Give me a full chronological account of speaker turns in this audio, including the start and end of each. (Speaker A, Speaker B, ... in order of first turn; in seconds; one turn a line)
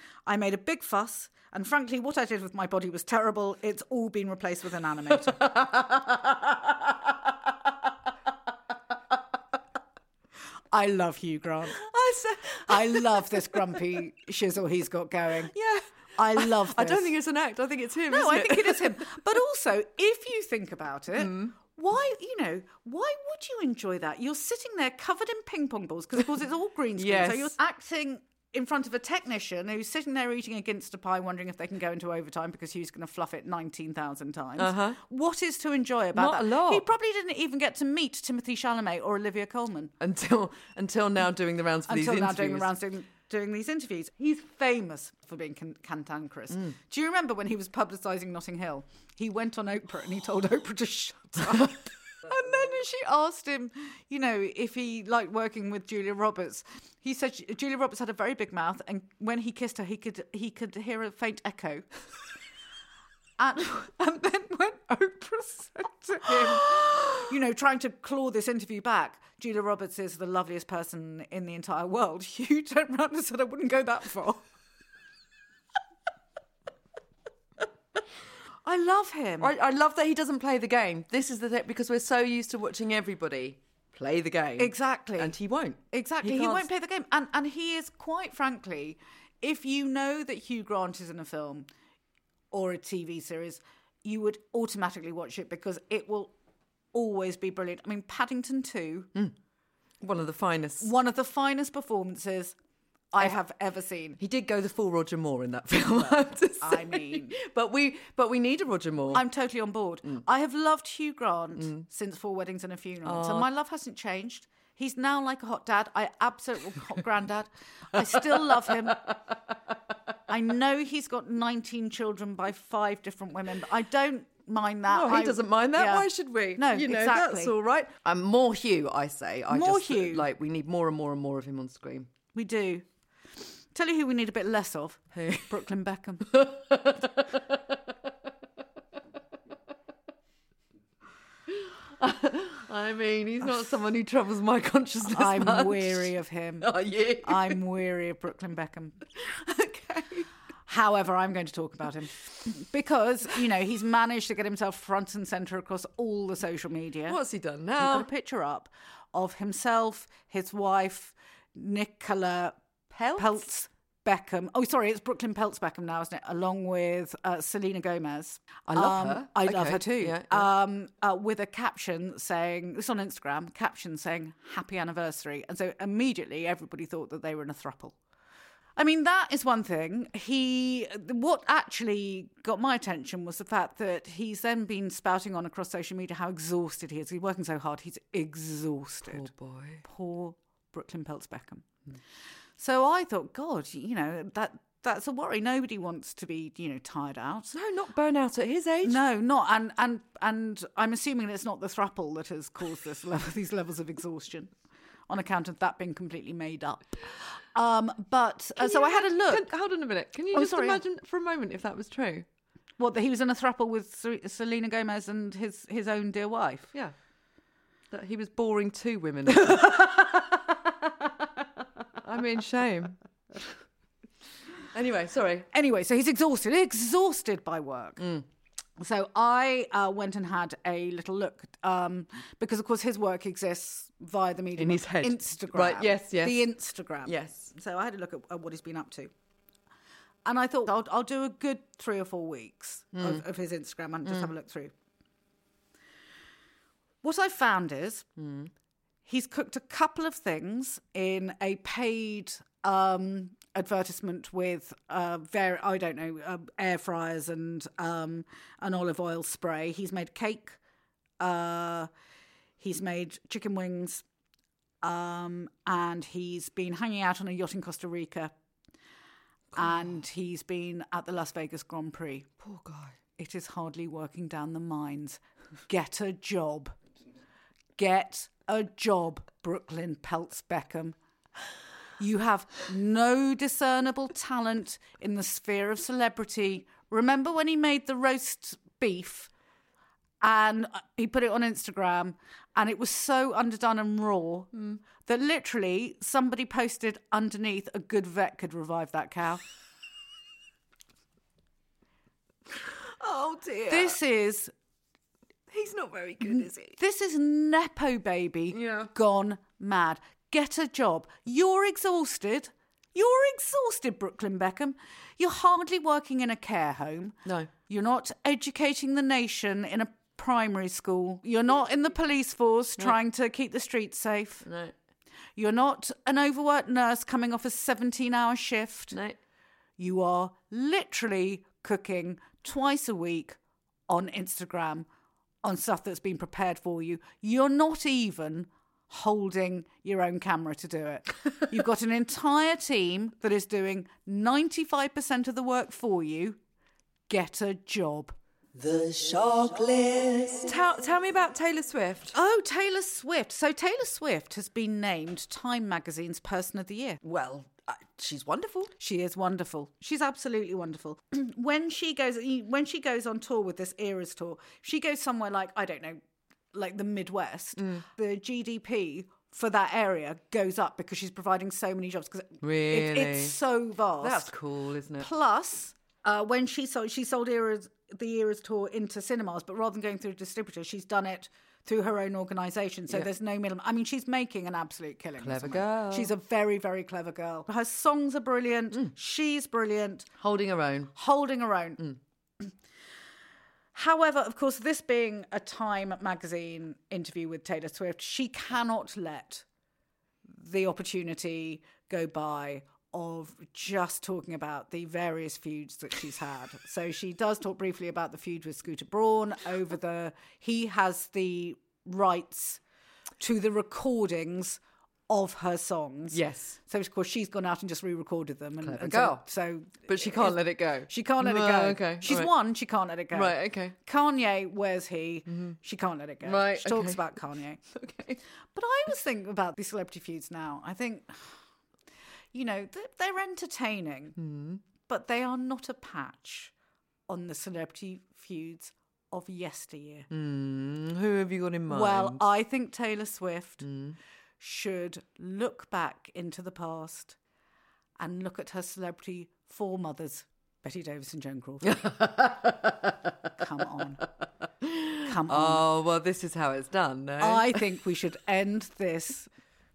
Speaker A: 0.2-5.4
Speaker B: 5.4-6.5
Speaker A: 10.7-11.8
Speaker B: 11.8-13.3
Speaker A: 12.7-15.5
Speaker B: 15.5-19.0
Speaker A: 16.2-17.1
Speaker A: 18.1-39.9
Speaker B: 21.2-21.5
Speaker B: 27.0-27.5
Speaker B: 34.6-35.0
Speaker B: 36.1-36.9
Speaker B: 40.0-42.7
Speaker A: 41.9-61.9
Speaker A: 63.4-74.4
Speaker A: 78.6-79.5
Speaker B: 79.4-86.7
Speaker A: 84.6-85.3
Speaker A: 85.9-91.7
Speaker A: 92.5-96.3
Speaker A: 96.9-99.1
Speaker B: 100.0-100.9
Speaker A: 100.8-102.5
Speaker A: 103.1-104.2
Speaker B: 104.2-109.2
Speaker A: 106.6-107.3
Speaker A: 109.1-119.2
Speaker B: 113.0-113.5
Speaker A: 120.3-127.5
Speaker B: 124.9-132.1
Speaker A: 129.5-130.2
Speaker A: 132.3-132.9
Speaker A: 133.4-136.3
Speaker B: 135.1-135.5
Speaker B: 136.3-137.4
Speaker B: 141.5-147.6
Speaker A: 145.1-149.0
Speaker B: 149.2-150.3
Speaker A: 150.7-157.2
Speaker B: 157.1-158.1
Speaker A: 157.8-162.6
Speaker B: 162.9-163.4
Speaker A: 163.2-178.0
Speaker B: 168.7-170.5
Speaker A: 178.8-189.3
Speaker B: 189.0-189.8
Speaker A: 189.8-191.7
Speaker A: 192.6-197.5
Speaker B: 197.5-199.0
Speaker A: 198.8-204.5
Speaker A: 205.1-209.4
Speaker B: 208.6-212.3
Speaker A: 210.3-210.8
Speaker A: 212.8-216.7
Speaker B: 217.9-220.0
Speaker A: 219.3-220.1
Speaker B: 222.0-223.0
Speaker B: 224.7-225.5
Speaker A: 225.5-228.0
Speaker B: 228.0-228.2
Speaker A: 228.8-239.1
Speaker B: 234.6-236.5
Speaker B: 237.0-237.5
Speaker A: 240.2-244.7
Speaker B: 242.9-243.2
Speaker A: 247.0-248.1
Speaker B: 248.2-248.5
Speaker A: 249.0-260.6
Speaker A: 261.2-261.9
Speaker A: 262.6-264.0
Speaker A: 264.8-268.3
Speaker A: 269.6-272.3
Speaker B: 272.4-273.0
Speaker A: 273.2-276.8
Speaker A: 277.8-280.9
Speaker A: 282.0-289.3
Speaker A: 290.2-299.4
Speaker B: 303.0-304.0
Speaker A: 303.7-304.5
Speaker B: 305.5-306.8
Speaker A: 306.2-324.4
Speaker B: 308.5-308.9
Speaker B: 317.2-317.5
Speaker B: 324.4-324.7
Speaker A: 325.4-328.9
Speaker B: 328.9-329.2
Speaker A: 329.8-334.9
Speaker A: 335.4-346.4
Speaker A: 347.1-348.1
Speaker B: 348.6-352.1
Speaker A: 352.1-357.0
Speaker B: 357.0-358.7
Speaker A: 358.8-366.0
Speaker A: 366.5-374.3
Speaker B: 372.4-373.4
Speaker B: 374.0-375.1
Speaker A: 375.0-390.1
Speaker B: 385.2-386.1
Speaker B: 390.2-390.9
Speaker A: 390.9-391.8
Speaker A: 393.7-399.4
Speaker A: 400.2-412.6
Speaker A: 413.2-427.6
Speaker B: 416.1-416.6
Speaker B: 418.6-419.2
Speaker B: 419.8-422.3
Speaker B: 423.1-423.8
Speaker B: 425.3-425.6
Speaker B: 426.2-427.1
Speaker B: 427.7-428.2
Speaker A: 428.5-431.4
Speaker A: 432.3-434.2
Speaker B: 434.2-434.6
Speaker A: 434.8-436.5
Speaker A: 437.1-440.1
Speaker B: 440.1-442.2
Speaker A: 441.7-443.6
Speaker B: 443.6-444.0
Speaker A: 444.4-447.2
Speaker A: 448.0-451.8
Speaker B: 451.6-453.3
Speaker A: 453.4-454.0
Speaker B: 454.6-457.7
Speaker A: 455.0-455.6
Speaker A: 457.2-459.3